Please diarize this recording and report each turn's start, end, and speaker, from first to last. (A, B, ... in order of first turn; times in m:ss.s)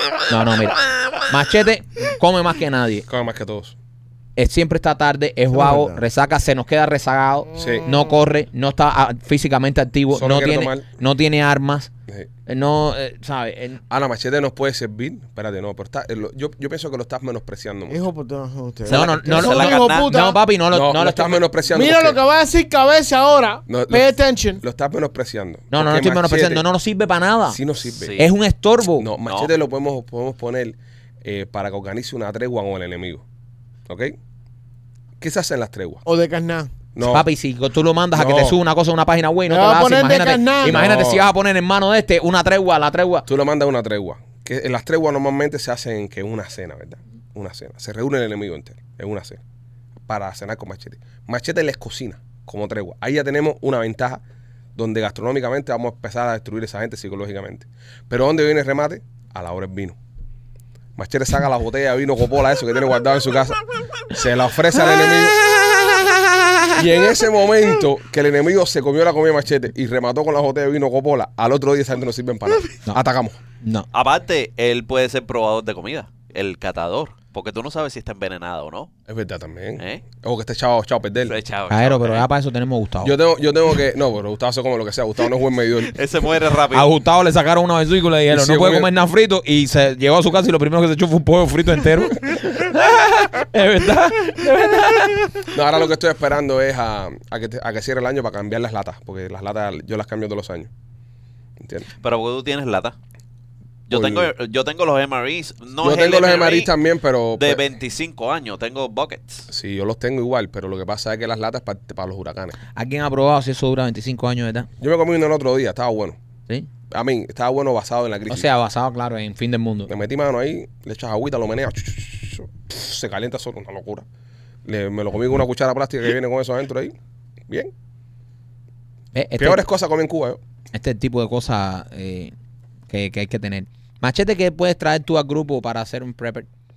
0:00.3-0:03.1 A
0:03.1-0:03.8 B
0:04.4-0:11.9 A
0:05.5-0:06.0 C
0:07.5-0:08.1 C
0:07.6-0:07.9 B
0:10.1-0:10.8 B
0:12.5-0:13.8 A
0:13.9-0:18.0 B
0:17.9-0:20.4 C
0:18.9-0:20.1 D
0:18.9-0:21.4 A
0:20.7-0:22.2 B
0:21.7-0:24.6 C
0:23.7-0:24.1 B
0:24.6-0:26.6 B
0:25.7-0:27.6 A
0:27.5-0:28.1 B
0:28.0-0:28.3 D
0:28.2-0:29.1 A
0:29.0-0:33.2 B
0:33.9-0:34.2 B
0:35.2-0:36.0 B
0:36.0-0:36.7 C
0:37.0-0:37.3 B
0:37.0-0:43.3 A
0:38.1-0:38.6 B
0:39.5-0:41.0 C
0:40.7-0:41.2 B
0:43.3-0:49.4 B
0:50.1-0:54.2 B
0:54.8-1:00.0 B
1:01.0-1:05.4 B
1:05.8-1:06.7 A
1:06.7-1:13.4 B
1:13.6-1:13.9 A
1:13.9-1:18.9 D
1:19.1-1:21.4 B
1:21.3-1:22.3 D
1:21.7-1:23.2 A
1:23.0-1:26.0 B
1:25.9-1:26.9 D
1:26.7-1:35.5 A
1:28.3-1:28.9 B
1:35.5-1:40.7 B
1:41.6-1:41.9 B
1:42.0-1:43.0 D
1:43.9-1:46.7 D
1:43.9-1:44.3 B
1:45.8-1:47.6 B
1:47.4-1:49.5 D
1:49.5-1:52.6 B
1:52.8-1:54.7 A
1:54.8-1:56.2 B
1:56.9-1:58.5 B
1:58.3-1:59.9 A
1:59.9-2:04.0 B
2:04.7-2:07.0 B
2:09.1-2:09.6 A
2:09.4-2:10.4 B
2:10.7-2:12.3 A
2:12.9-2:16.5 A